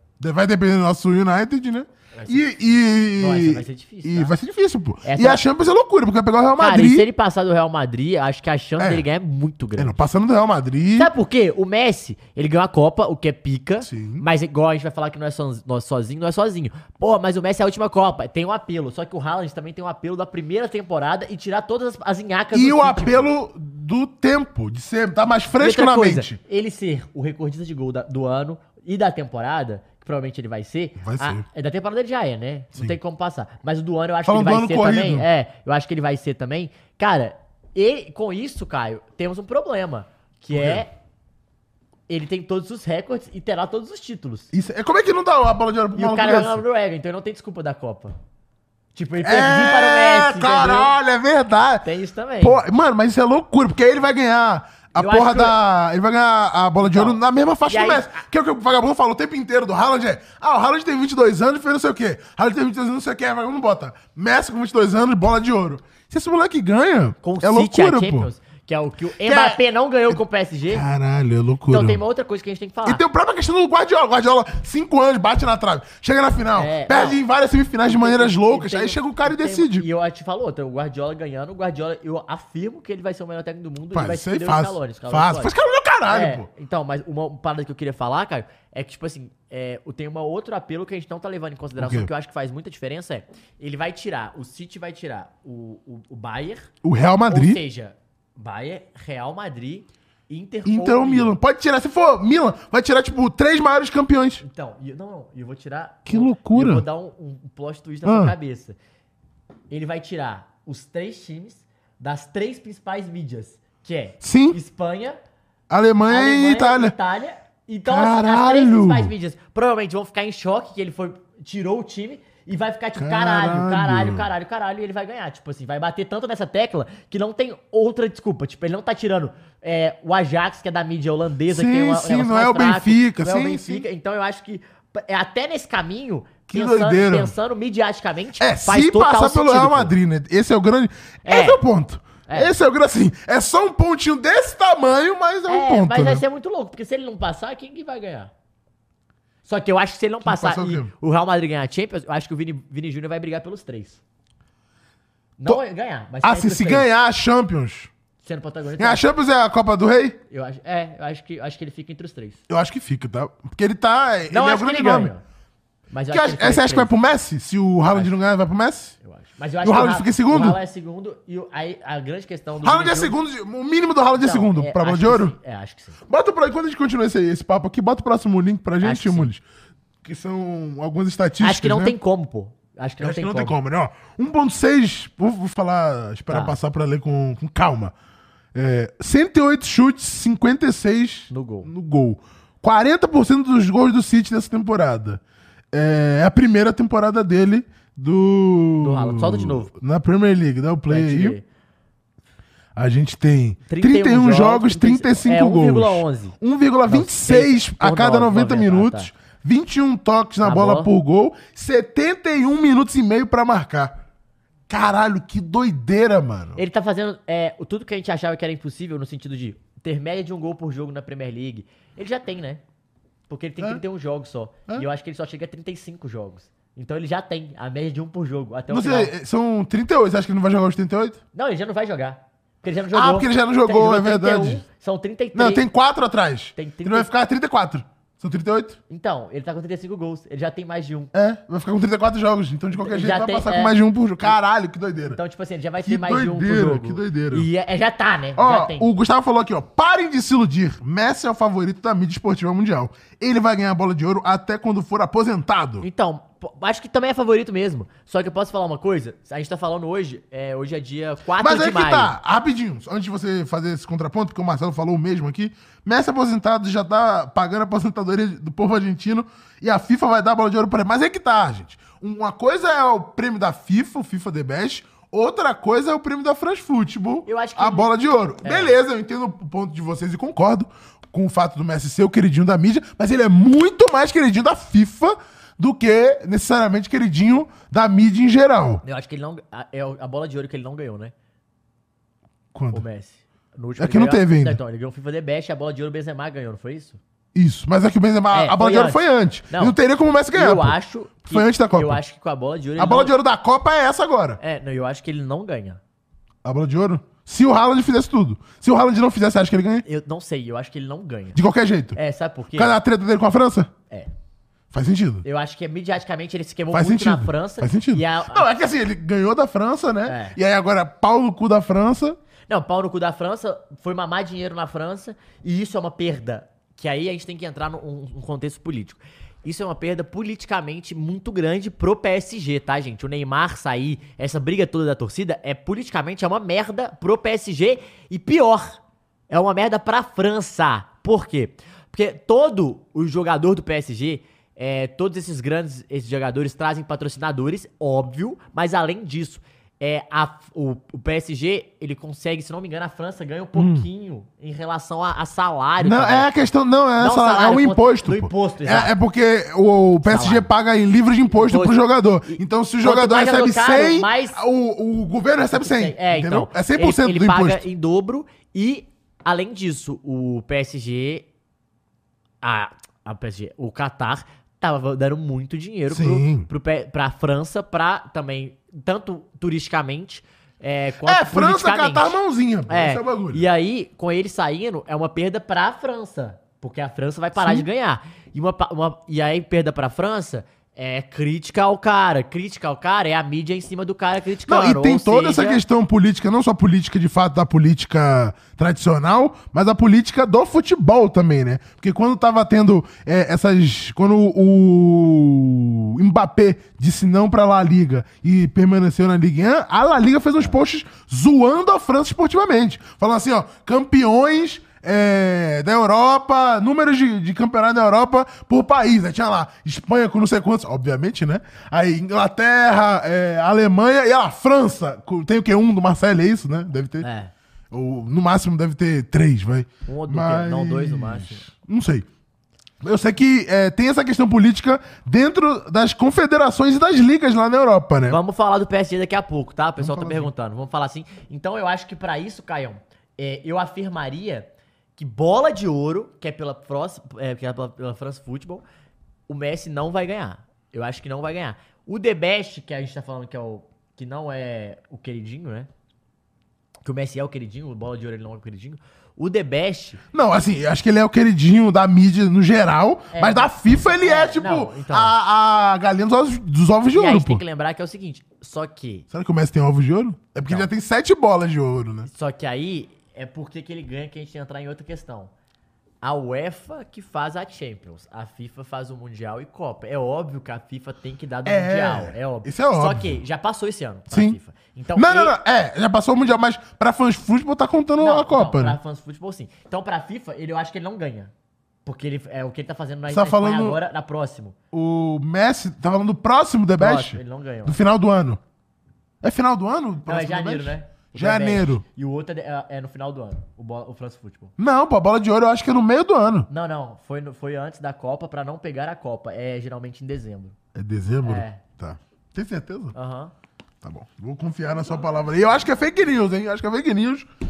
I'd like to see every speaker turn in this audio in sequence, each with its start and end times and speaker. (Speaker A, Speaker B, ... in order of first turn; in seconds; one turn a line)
Speaker A: 0.2-7.1
Speaker B: 2.1-2.5
Speaker B: 3.2-4.3
Speaker B: 5.0-5.4
Speaker B: 6.6-10.0
Speaker A: 8.8-9.1
Speaker A: 9.8-11.1
Speaker B: 11.0-23.3
Speaker A: 13.8-14.3
Speaker A: 22.5-26.4
Speaker B: 25.6-40.9
Speaker A: 31.0-31.4
Speaker A: 34.2-35.3
Speaker A: 40.5-40.9
Speaker B: 42.1-44.5
Speaker A: 44.5-46.6
Speaker B: 46.0-48.2
Speaker B: 48.9-50.9
Speaker A: 49.2-51.9
Speaker B: 51.8-52.6
Speaker A: 52.4-68.3
Speaker B: 55.0-55.6
Speaker B: 56.8-58.1
Speaker B: 67.2-70.8
Speaker A: 69.2-72.0
Speaker B: 71.7-73.0
Speaker A: 72.8-79.9
Speaker B: 76.5-77.2
Speaker B: 77.8-85.5
Speaker A: 83.9-86.5
Speaker B: 86.1-96.7
Speaker A: 91.8-92.1
Speaker A: 96.8-97.6
Speaker B: 97.3-101.3
Speaker A: 100.7-104.4
Speaker B: 104.4-108.8
Speaker A: 106.1-106.9
Speaker A: 108.0-108.3
Speaker B: 109.7-115.2
Speaker A: 114.2-114.6
Speaker A: 115.7-116.9
Speaker B: 116.1-139.9
Speaker A: 117.9-119.1
Speaker A: 123.0-124.3
Speaker A: 131.5-133.9
Speaker A: 136.5-137.3
Speaker A: 138.4-146.2
Speaker B: 141.3-141.6
Speaker B: 142.3-142.5
Speaker B: 145.5-148.3
Speaker B: 149.5-154.0
Speaker A: 150.2-150.9
Speaker B: 155.4-156.9
Speaker A: 156.2-157.9
Speaker B: 158.2-159.0
Speaker A: 158.8-160.2
Speaker B: 160.3-162.4
Speaker A: 162.5-165.1
Speaker B: 164.3-165.2
Speaker B: 165.9-166.9
Speaker A: 166.1-169.0
Speaker B: 167.9-168.2
Speaker B: 169.0-173.2
Speaker A: 169.6-170.6
Speaker A: 172.6-175.4
Speaker B: 174.2-176.0
Speaker A: 176.1-179.4
Speaker B: 178.8-179.3
Speaker A: 180.0-182.0
Speaker B: 181.4-183.5
Speaker A: 183.0-187.9
Speaker B: 186.3-186.6
Speaker A: 188.6-195.2
Speaker B: 191.3-191.7
Speaker A: 195.7-201.4
Speaker B: 198.8-199.7
Speaker B: 200.9-201.4
Speaker A: 202.8-214.0
Speaker B: 203.7-206.3
Speaker B: 206.9-209.1
Speaker B: 210.4-210.9
Speaker A: 214.7-216.6
Speaker B: 216.6-222.6
Speaker B: 223.3-229.1
Speaker A: 228.7-231.2
Speaker B: 231.3-235.6
Speaker A: 232.9-234.6
Speaker A: 235.3-238.8
Speaker B: 236.6-237.1
Speaker B: 238.9-241.1
Speaker A: 241.1-245.2
Speaker B: 242.8-243.7
Speaker B: 245.1-248.9
Speaker A: 245.8-247.5
Speaker A: 248.4-255.9
Speaker B: 255.8-262.1
Speaker A: 261.4-288.8
Speaker B: 277.3-277.9
Speaker B: 278.4-278.8
Speaker B: 288.8-291.1
Speaker A: 292.5-292.9
Speaker B: 292.7-297.0
Speaker A: 293.8-294.6
Speaker A: 297.4-302.0
Speaker B: 298.3-299.8
Speaker B: 300.3-303.1
Speaker A: 302.8-304.4
Speaker B: 304.4-305.8
Speaker A: 306.4-309.9
Speaker B: 309.9-311.4
Speaker A: 311.4-312.0
Speaker B: 312.0-312.8
Speaker A: 312.5-313.7
Speaker A: 314.7-315.2
Speaker B: 315.2-318.5
Speaker A: 316.7-322.2
Speaker B: 320.1-320.4
Speaker B: 322.5-338.8
Speaker B: 339.3-356.3
Speaker A: 353.6-353.9
Speaker A: 355.8-367.6
Speaker B: 357.0-358.9
Speaker B: 360.1-360.5
Speaker B: 361.3-361.8
Speaker B: 362.3-364.4
Speaker B: 365.5-371.3
Speaker B: 372.4-382.2
Speaker A: 375.9-376.5
Speaker A: 381.0-383.5
Speaker B: 382.7-395.6
Speaker A: 387.4-387.7
Speaker A: 394.5-427.1
Speaker B: 427.0-427.3
Speaker A: 427.7-432.1
Speaker B: 429.9-431.5
Speaker A: 432.8-438.2
Speaker B: 438.1-448.6
Speaker A: 439.8-440.3
Speaker B: 449.3-455.7
Speaker B: 456.8-460.0
Speaker A: 460.1-467.4
Speaker B: 463.1-465.1
Speaker B: 466.9-469.1
Speaker A: 469.1-472.1
Speaker B: 470.4-470.7
Speaker B: 472.1-475.3
Speaker B: 476.0-485.3
Speaker A: 481.4-483.2
Speaker A: 484.1-484.4
Speaker A: 484.9-488.8
Speaker B: 488.0-491.3
Speaker B: 491.9-494.6
Speaker A: 493.1-493.8
Speaker A: 494.7-498.4
Speaker B: 496.8-497.8
Speaker A: 499.2-501.8
Speaker B: 500.1-504.5
Speaker A: 504.6-506.5
Speaker B: 506.5-510.6
Speaker A: 510.8-513.0
Speaker B: 511.2-511.6
Speaker B: 513.0-513.3
Speaker A: 513.8-517.3